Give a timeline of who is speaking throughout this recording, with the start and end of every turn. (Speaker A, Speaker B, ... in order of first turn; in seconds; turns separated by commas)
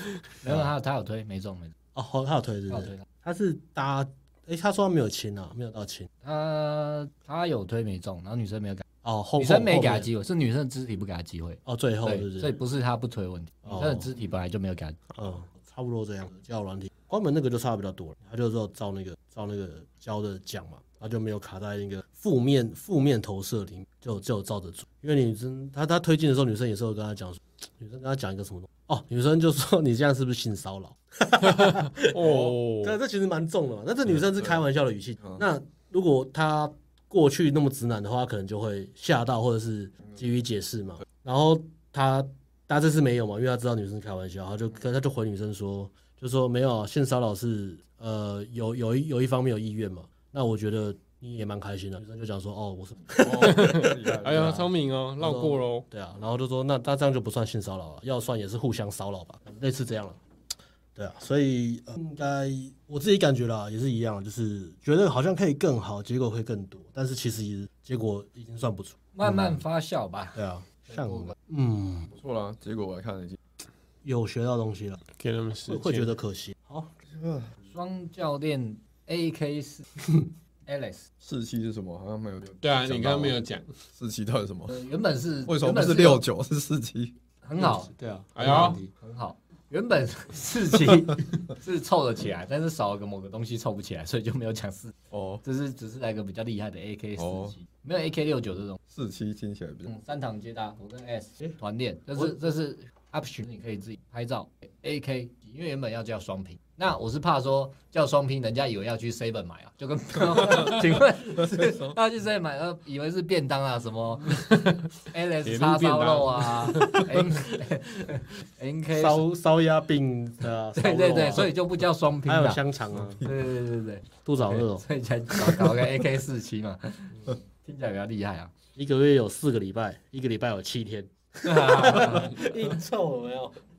Speaker A: 0.4-1.7, Speaker B: 1.9-6.1, Speaker A: 2.7-3.0, Speaker A: 6.2-8.9, Speaker B: 9.0-10.1, Speaker A: 9.4-15.0, Speaker B: 11.7-12.6, Speaker B: 13.7-14.1, Speaker B: 15.2-54.7, Speaker C: 31.4-33.0, Speaker C: 53.2-55.8, Speaker D: 53.4-54.6, Speaker B: 55.2-60.2, Speaker B: 61.0-69.6, Speaker A: 69.2-71.3, Speaker B: 70.4-72.1, Speaker D: 72.1-73.4, Speaker B: 74.0-75.0, Speaker C: 75.2-76.1, Speaker B: 75.7-77.0, Speaker D: 77.1-77.5, Speaker A: 77.7-79.8, Speaker A: 80.7-81.1, Speaker D: 81.2-83.4, Speaker C: 82.6-83.7, Speaker D: 83.9-84.7, Speaker A: 84.7-86.2, Speaker D: 85.5-87.1, Speaker A: 87.4-87.9, Speaker B: 87.6-88.9, Speaker C: 88.4-88.8, Speaker A: 88.4-98.8, Speaker D: 95.1-95.4, Speaker D: 97.2-97.6, Speaker D: 98.9-99.9, Speaker A: 99.9-119.2, Speaker C: 115.5-117.2, Speaker B: 118.9-121.5, Speaker A: 120.8-122.6, Speaker B: 122.3-123.2, Speaker A: 123.2-128.5, Speaker B: 124.2-125.7, Speaker B: 128.8-133.6, Speaker A: 131.4-132.4